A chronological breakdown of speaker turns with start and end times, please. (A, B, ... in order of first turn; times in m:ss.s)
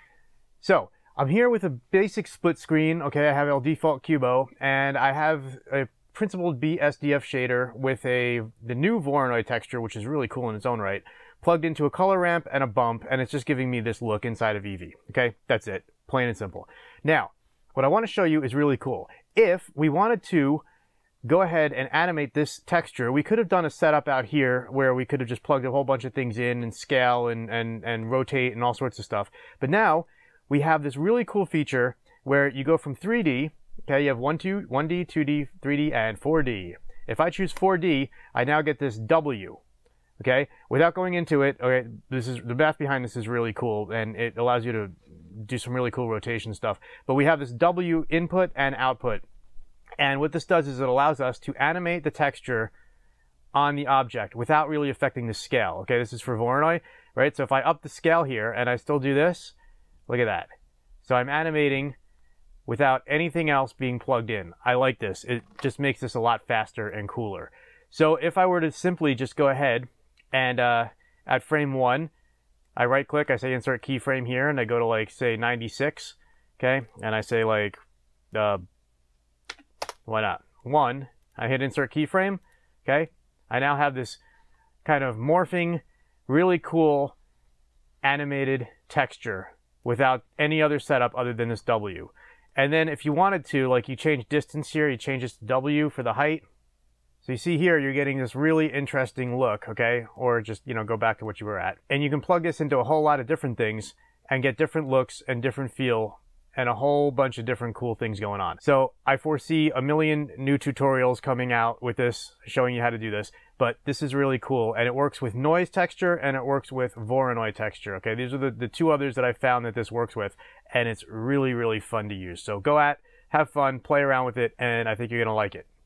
0:00.6-0:20.6 A
0:21.2-0:39.6 A
0:40.2-0:49.2 A
0:50.0-0:52.7 A
0:53.5-0:59.5 A
1:00.1-1:00.5 A
1:01.0-1:01.9 A
1:02.6-1:12.1 A
1:12.8-1:17.8 A
1:18.3-1:18.6 A
1:20.1-1:24.2 A
1:24.8-1:27.1 A
1:28.0-1:36.4 A
1:37.2-2:05.7 A